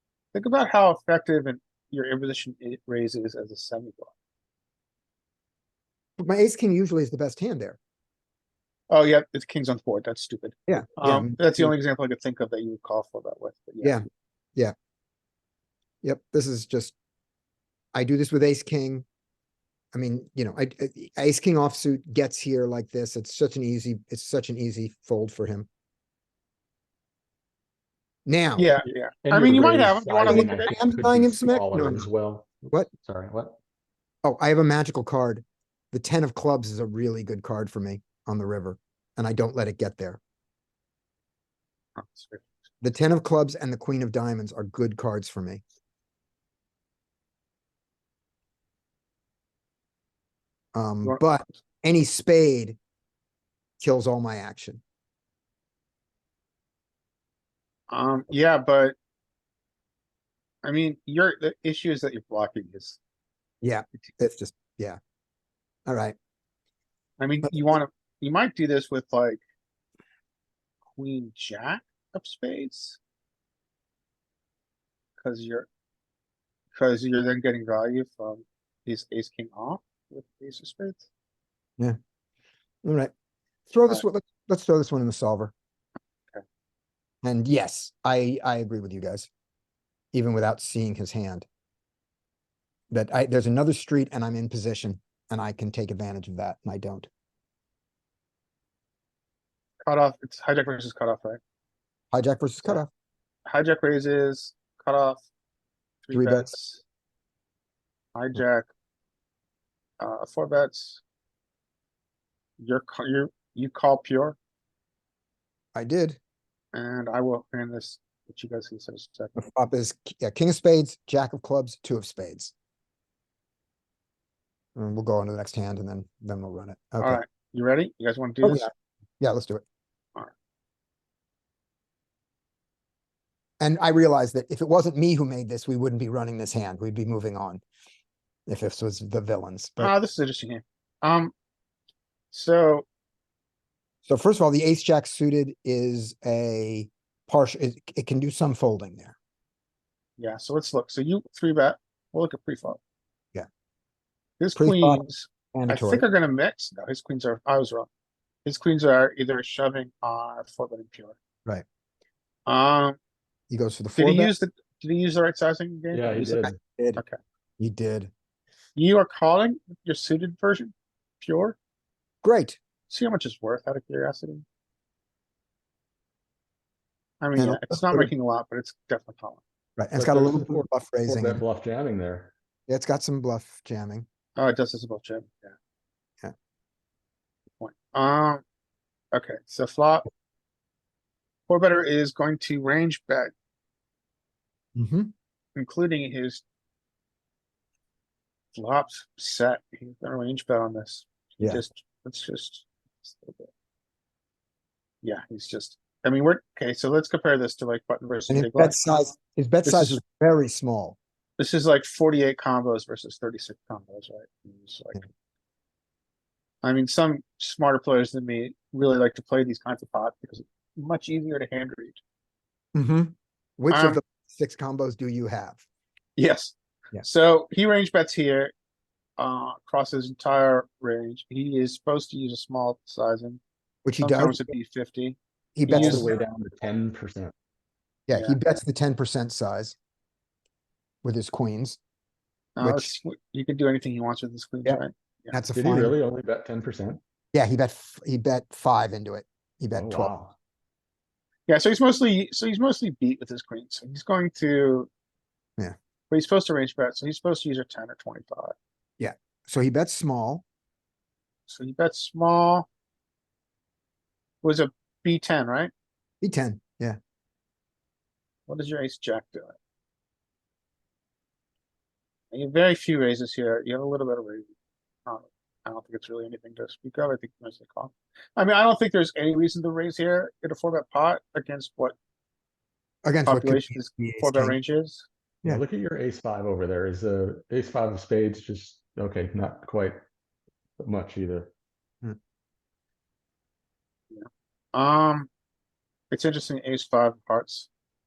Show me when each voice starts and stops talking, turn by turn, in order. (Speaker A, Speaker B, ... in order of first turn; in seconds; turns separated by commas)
Speaker A: 0.3-4.1, Speaker B: 6.2-7.8, Speaker A: 8.9-14.0, Speaker B: 10.7-11.7, Speaker B: 16.0-16.9, Speaker B: 17.9-19.0, Speaker B: 19.9-25.7, Speaker B: 28.2-28.7, Speaker A: 28.6-30.8, Speaker C: 29.2-33.6, Speaker B: 30.3-32.1, Speaker B: 32.6-32.9, Speaker B: 34.2-40.2, Speaker A: 42.0-42.5, Speaker B: 42.8-45.6, Speaker B: 50.7-52.8, Speaker B: 53.8-54.8, Speaker A: 57.9-59.0, Speaker A: 60.6-63.0, Speaker B: 63.6-65.0, Speaker B: 65.9-66.2, Speaker A: 67.2-69.4, Speaker A: 70.9-73.0, Speaker A: 75.2-75.7, Speaker A: 76.7-81.0, Speaker B: 82.8-83.1, Speaker B: 83.7-85.5, Speaker B: 87.2-89.3, Speaker B: 90.1-91.5, Speaker B: 92.9-97.1, Speaker A: 99.8-101.4, Speaker B: 102.1-102.9, Speaker A: 103.5-105.2, Speaker A: 106.0-106.8, Speaker B: 106.1-106.5, Speaker A: 108.1-108.7, Speaker A: 110.0-111.0, Speaker A: 112.6-114.4, Speaker B: 115.7-116.2, Speaker A: 116.7-119.3, Speaker B: 119.3-122.5, Speaker B: 124.8-127.2, Speaker A: 127.0-128.7, Speaker B: 128.4-129.6, Speaker B: 133.6-137.6, Speaker B: 138.5-139.9, Speaker A: 139.8-141.3, Speaker A: 142.3-142.9, Speaker B: 144.1-149.2, Speaker A: 150.2-152.8, Speaker A: 154.4-157.9, Speaker B: 154.6-156.1, Speaker A: 158.4-161.2, Speaker A: 162.4-163.0, Speaker B: 163.5-164.3, Speaker A: 163.9-167.2, Speaker C: 165.9-166.6, Speaker B: 166.3-167.0, Speaker B: 167.6-168.1, Speaker A: 168.8-171.6, Speaker B: 172.2-172.6, Speaker A: 172.9-174.4, Speaker A: 177.2-179.4, Speaker B: 177.3-178.1, Speaker B: 179.8-181.4, Speaker C: 179.9-182.3, Speaker B: 182.7-184.1, Speaker A: 184.3-185.5, Speaker A: 187.6-188.4, Speaker A: 189.1-190.1, Speaker A: 191.5-193.3, Speaker B: 194.7-195.1, Speaker A: 195.6-196.4, Speaker A: 198.5-203.5, Speaker A: 205.0-208.8, Speaker B: 208.3-211.0, Speaker A: 209.6-210.0, Speaker A: 211.4-215.1, Speaker A: 216.6-222.0, Speaker B: 222.7-225.6, Speaker A: 223.7-224.0, Speaker A: 226.2-228.5, Speaker A: 229.2-233.4, Speaker B: 233.8-234.4, Speaker A: 234.0-236.1, Speaker B: 235.6-236.2, Speaker C: 235.7-237.3, Speaker B: 238.1-239.8, Speaker B: 241.0-241.8, Speaker A: 242.6-245.3, Speaker B: 242.6-242.9, Speaker B: 244.6-246.0, Speaker C: 245.5-247.0, Speaker B: 247.3-250.1, Speaker C: 249.7-250.3, Speaker A: 251.5-254.9, Speaker A: 256.1-258.5, Speaker B: 259.0-260.4, Speaker A: 261.5-262.6, Speaker A: 264.4-265.7, Speaker B: 266.2-267.0, Speaker A: 268.5-269.6, Speaker A: 272.3-274.5, Speaker A: 275.1-281.9, Speaker B: 283.0-284.6, Speaker A: 283.2-285.1, Speaker C: 285.4-290.0, Speaker C: 290.8-291.5, Speaker A: 294.1-295.3, Speaker A: 296.1-297.7